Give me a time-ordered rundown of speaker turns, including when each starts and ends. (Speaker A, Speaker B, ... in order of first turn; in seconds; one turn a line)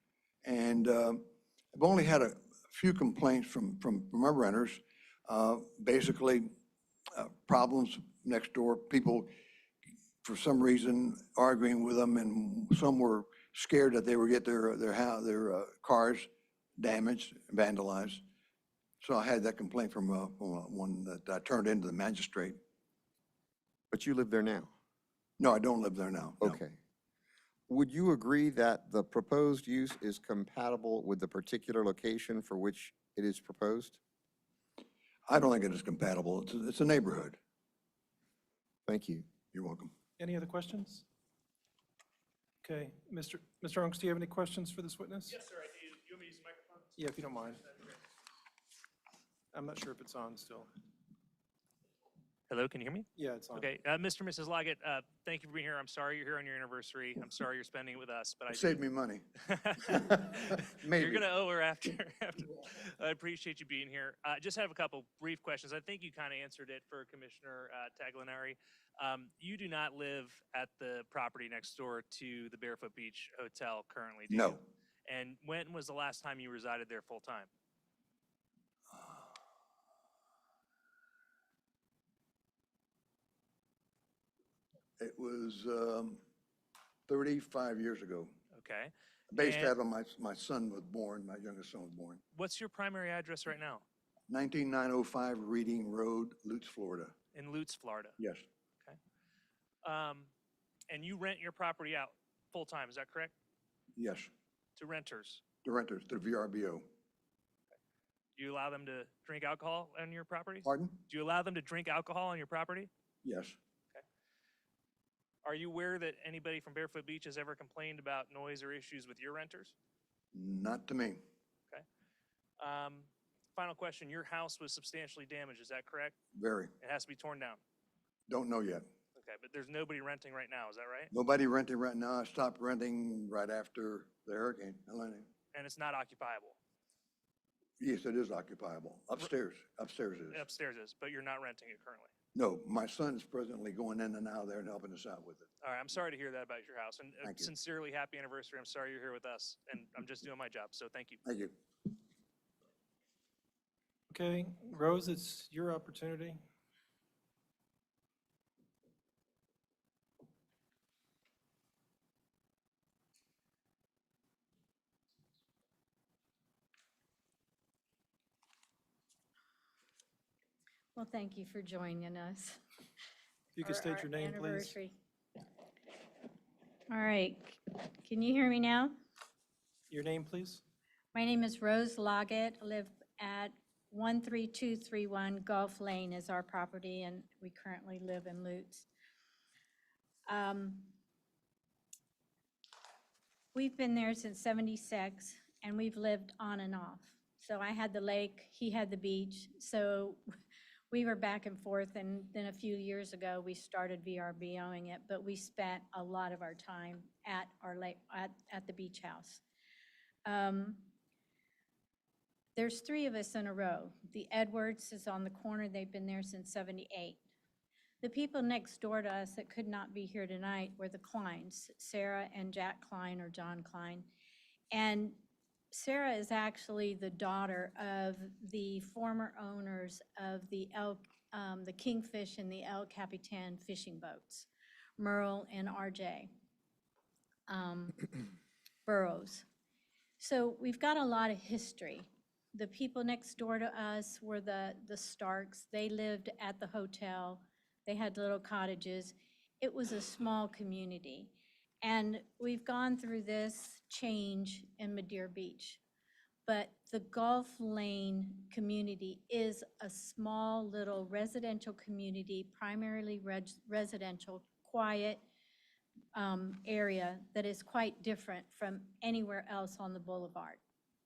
Speaker A: 0.4-6.5
Speaker A: 7.1-9.3
Speaker A: 10.2-18.2
Speaker A: 19.0-22.6
Speaker B: 23.9-24.7
Speaker A: 25.4-26.6
Speaker B: 26.4-26.8
Speaker B: 27.7-34.0
Speaker A: 35.3-37.4
Speaker B: 38.9-39.3
Speaker A: 39.5-39.9
Speaker C: 40.2-41.0
Speaker C: 42.6-45.4
Speaker D: 45.3-46.9
Speaker C: 47.0-47.7
Speaker C: 49.5-50.7
Speaker D: 52.5-58.8
Speaker C: 53.1-53.7
Speaker A: 58.5-59.2
Speaker D: 59.5-77.5
Speaker A: 59.9-61.3
Speaker A: 74.3-74.6
Speaker A: 85.0-86.2
Speaker A: 87.1-88.3
Speaker D: 88.5-89.7
Speaker A: 89.3-92.2
Speaker D: 92.3-93.8
Speaker A: 94.3-97.1
Speaker D: 97.3-98.2
Speaker A: 98.2-98.4
Speaker D: 99.8-100.3
Speaker D: 100.9-103.3
Speaker A: 104.0-104.3
Speaker D: 104.8-105.4
Speaker A: 105.6-106.9
Speaker D: 108.3-112.9
Speaker A: 110.6-111.0
Speaker A: 113.2-113.6
Speaker D: 115.4-119.7
Speaker A: 120.3-121.2
Speaker D: 122.6-126.1
Speaker A: 126.3-126.7
Speaker D: 126.8-127.6
Speaker A: 128.3-128.8
Speaker D: 129.2-131.1
Speaker A: 131.1-135.3
Speaker D: 135.5-136.6
Speaker A: 137.8-140.4
Speaker D: 140.3-142.1
Speaker A: 142.3-145.5
Speaker D: 145.6-151.2
Speaker A: 147.2-147.5
Speaker A: 151.2-151.5
Speaker C: 154.1-156.4
Speaker E: 170.9-172.6
Speaker C: 173.6-174.8
Speaker E: 173.6-174.9
Speaker E: 176.9-178.9
Speaker C: 179.9-180.6
Speaker E: 181.1-188.9
Speaker E: 190.3-190.9
Speaker E: 193.5-200.2
Speaker E: 200.9-209.4
Speaker E: 210.2-210.9
Speaker E: 212.6-217.2
Speaker E: 218.0-224.1
Speaker E: 224.7-225.2
Speaker E: 225.7-236.3
Speaker E: 237.5-238.0
Speaker E: 238.8-239.4
Speaker E: 240.2-255.8
Speaker E: 256.5-265.2
Speaker E: 266.1-270.6